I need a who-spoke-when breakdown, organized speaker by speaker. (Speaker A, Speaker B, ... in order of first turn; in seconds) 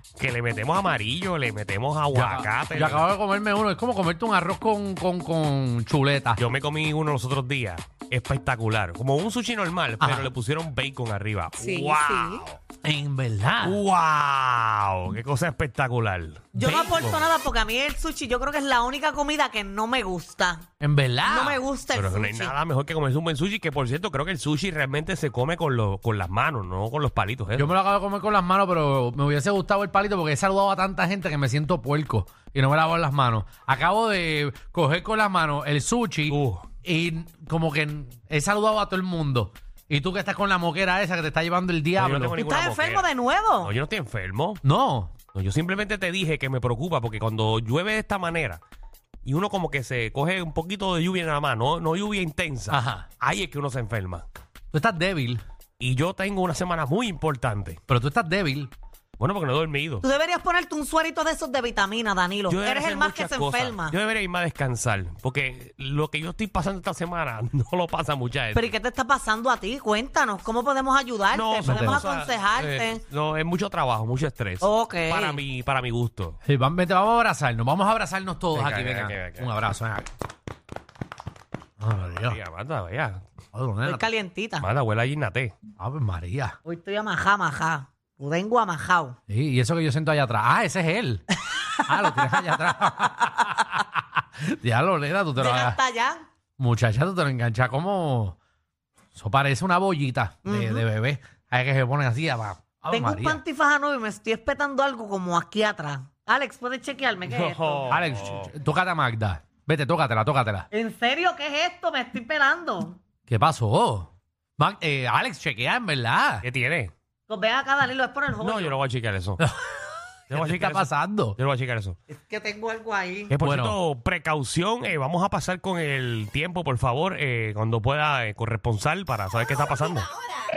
Speaker A: 0.2-3.1, 6.4-12.6, 13.6-17.3, 21.9-27.8, 36.3-36.6, 42.0-43.1, 43.6-44.6, 45.3-48.6, 49.2-54.2, 55.8-57.8, 59.2-60.0, 62.5-68.7, 71.3-76.4, 78.5-79.5, 82.3-83.2, 84.6-85.5, 107.2-108.5, 116.4-116.9, 118.4-119.4, 120.3-122.0, 123.3-130.1
Speaker B: 2.1-6.4, 10.0-10.3, 12.8-13.8, 20.8-21.6, 27.6-42.4, 44.6-45.1, 52.7-53.1, 54.7-55.4, 57.9-58.7, 71.7-72.0, 76.5-80.1, 81.8-82.4, 83.5-84.1, 85.8-86.6, 89.3-91.3, 91.9-95.8, 96.6-98.4, 99.2-103.4, 107.9-110.7, 113.3-116.5, 120.3-121.4, 123.4-123.8
Speaker C: 11.6-12.4, 16.5-20.6, 21.2-22.6, 42.4-43.7, 60.0-64.0, 68.5-73.0, 74.6-75.4, 83.9-84.7, 86.7-89.2, 95.4-96.2, 100.5-100.8, 102.9-107.9, 110.7-113.0, 117.3-118.8, 122.1-123.3